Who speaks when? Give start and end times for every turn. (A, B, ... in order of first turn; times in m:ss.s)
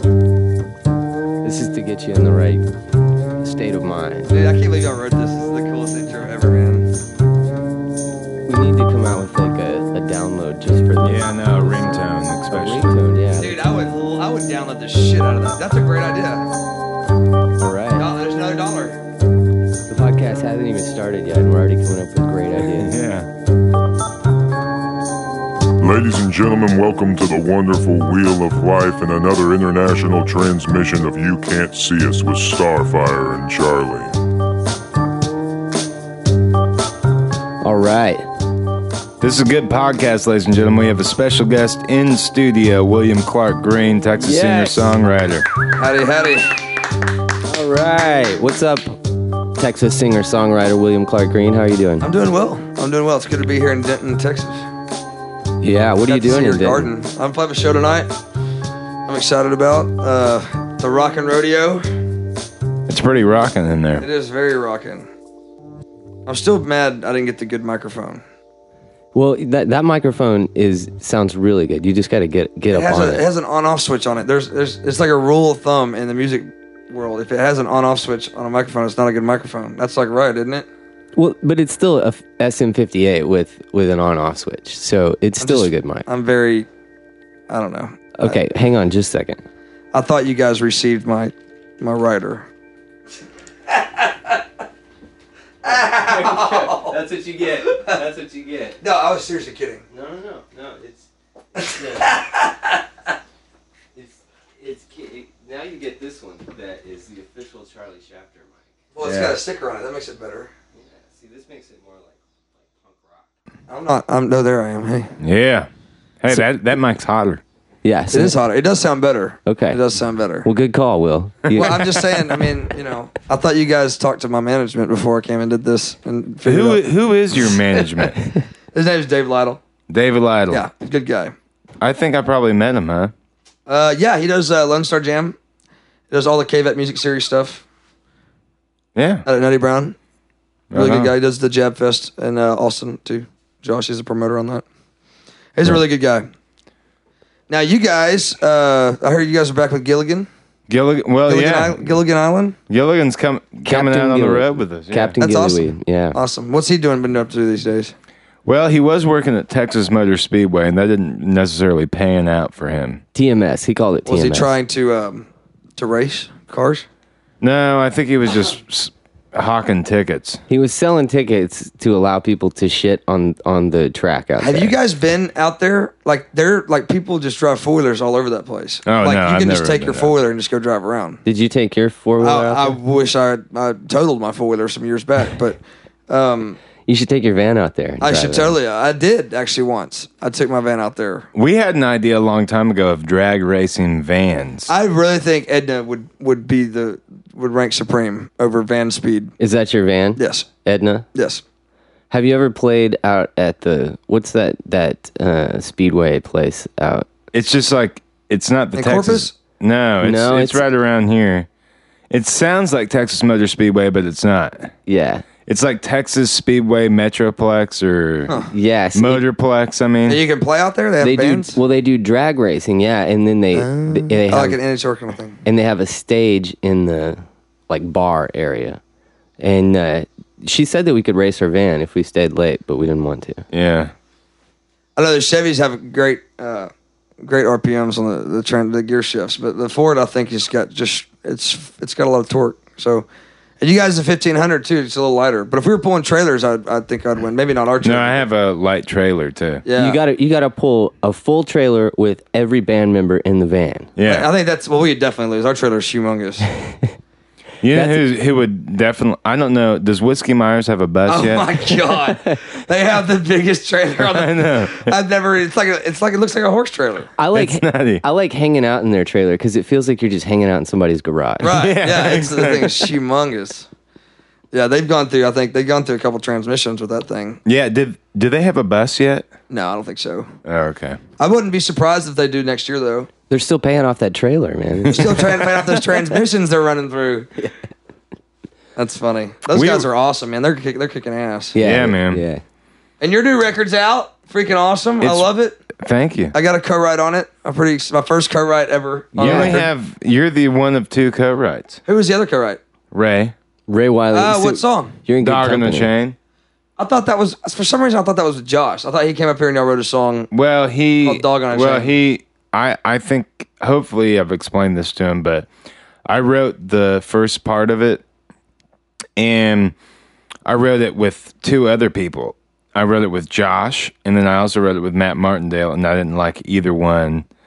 0:01.4-0:02.6 A
0:03.4-0:04.3 A
0:04.3-0:06.9 B
0:08.5-0:13.6 A
0:11.0-0:12.9 C
0:13.4-0:16.5 B
0:17.6-0:18.1 A
0:18.0-0:19.0 B
0:19.9-0:23.0 A
0:22.6-0:23.3 C
0:25.8-0:34.1 D
0:37.6-0:38.2 A
0:39.2-0:45.5 C
0:44.2-0:45.0 A
0:45.8-0:46.6 B
0:47.4-0:49.0 A
0:49.6-0:52.1 A
0:52.0-0:54.6 B
0:55.6-0:56.9 A
0:56.1-0:58.1 B
0:59.1-1:01.9 B
1:02.9-1:04.1 C
1:04.0-1:05.1 B
1:06.3-1:08.2 B
1:09.2-1:13.2 A
1:12.7-1:20.7 B
1:21.2-1:26.1 A
1:25.4-1:26.7 B
1:27.5-1:28.4 B
1:28.2-1:29.4 A
1:29.9-1:32.5 B
1:33.7-1:34.4 B
1:35.6-1:37.0 B
1:35.6-1:38.8 A
1:38.8-1:39.8 B
1:39.9-1:42.1 A
1:42.0-1:42.5 B
1:44.0-1:48.6 A
1:49.0-1:50.5 B
1:49.0-1:49.3 C
1:50.8-1:53.2 A
1:53.7-1:55.1 B
1:55.2-1:55.7 C
1:56.2-1:57.4 C
1:57.8-1:58.4 A
1:58.1-2:00.5 B
1:59.5-1:59.8 A
2:00.4-2:01.8 A
2:01.5-2:06.8 B
2:06.4-2:08.3 C
2:07.5-2:08.1 B
2:08.7-2:09.6 B
2:09.9-2:10.7 C
2:10.5-2:11.3 B
2:11.8-2:13.1 C
2:13.7-2:15.4 B
2:16.1-2:17.6 B
2:19.0-2:19.2 C
2:19.3-2:20.0 B
2:20.7-2:21.1 C
2:20.8-2:24.6 B
2:25.6-2:26.3 B
2:27.5-2:30.3 B
2:30.7-2:32.0 C
2:31.3-2:32.6 B
2:32.7-2:35.2 C
2:33.6-2:36.2 A
2:35.2-2:37.9 B
2:38.4-2:43.0 C
2:43.1-2:44.5 A
2:44.1-2:46.8 B
2:47.4-2:50.4 C
2:50.5-2:54.7 A
2:54.4-3:01.2 B
2:58.8-3:00.1 C
3:01.2-3:02.8 A
3:02.2-3:06.6 B
3:06.9-3:08.6 A
3:08.0-3:11.3 B
3:11.4-3:14.7 C
3:14.7-3:19.3 B
3:19.4-3:21.1 A
3:20.2-3:20.5 B
3:21.1-3:21.4 B
3:22.1-3:27.1 A
3:27.3-3:31.5 C
3:28.8-3:29.3 B
3:30.0-3:30.6 A
3:32.1-3:34.7 C
3:34.9-3:35.2 A
3:35.5-3:38.4 C
3:38.5-3:39.2 A
3:38.9-3:40.2 C
3:40.1-3:41.6 B
3:41.0-3:44.6 A
3:43.5-3:45.4 B
3:45.4-3:48.8 A
3:49.4-3:53.4 A
3:53.5-3:53.9 C
3:55.0-3:56.7 B
3:57.2-4:03.1 B
4:03.6-4:08.2 B
4:07.8-4:09.6 C
4:09.6-4:10.0 B
4:09.8-4:13.9 A
4:14.0-4:14.3 C
4:14.1-4:16.5 B
4:17.6-4:21.6 C
4:17.7-4:18.0 A
4:21.1-4:27.1 B
4:24.0-4:25.0 C
4:27.2-4:31.5 A
4:27.3-4:28.0 C
4:31.4-4:33.7 B
4:31.4-4:32.9 C
4:34.5-4:37.4 B
4:37.5-4:39.3 C
4:39.5-4:40.3 B
4:40.4-4:41.0 C
4:41.2-4:43.1 B
4:43.3-4:45.4 A
4:44.8-4:45.2 C
4:44.9-4:47.3 B
4:48.8-4:51.6 B
4:49.5-4:49.9 C
4:51.5-4:52.4 A
4:51.6-4:52.2 C
4:53.0-4:55.6 B
4:55.0-4:56.4 C
4:56.3-4:59.7 B
4:59.2-5:01.8 C
4:59.2-4:59.6 A
5:01.9-5:02.6 B
5:02.9-5:03.4 C
5:03.7-5:05.9 A
5:04.1-5:05.0 B
5:05.2-5:06.2 C
5:06.8-5:10.3 B
5:10.3-5:15.5 C
5:11.0-5:11.9 B
5:16.1-5:18.0 C
5:19.2-5:19.8 C
5:20.4-5:27.2 C